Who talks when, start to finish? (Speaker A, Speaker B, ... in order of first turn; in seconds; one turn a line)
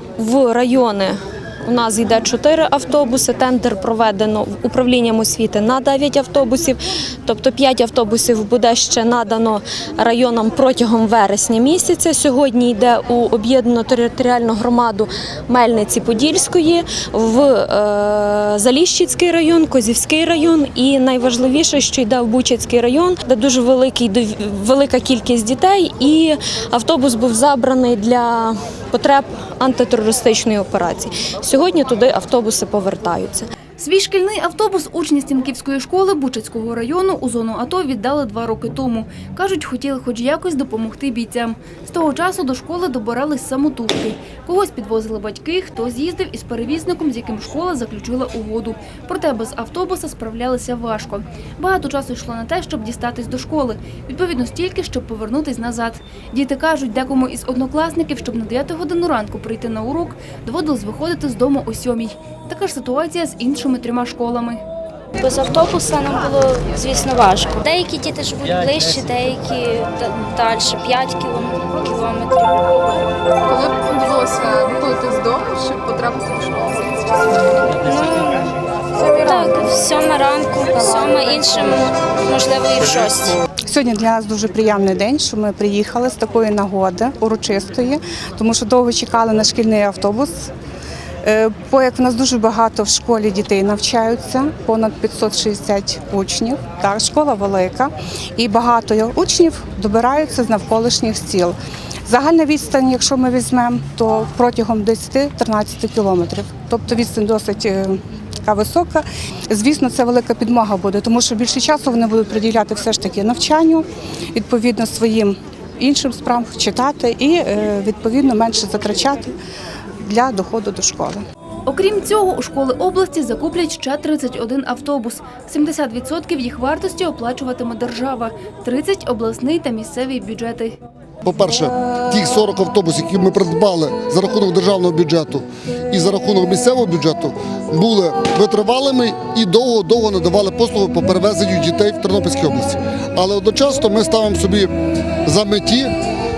Speaker A: 0.2-33.5
Speaker B: 33.8-64.6
Speaker C: 65.2-72.6
Speaker D: 73.4-77.7
Speaker C: 77.8-78.5
Speaker C: 79.1-83.4
Speaker E: 80.8-81.6
Speaker E: 83.7-90.5
Speaker E: 91.2-101.5
Speaker E: 102.1-119.3
Speaker E: 120.0-121.2
Speaker B: 121.7-130.8
Speaker F: 131.2-144.7
Speaker F: 145.2-145.9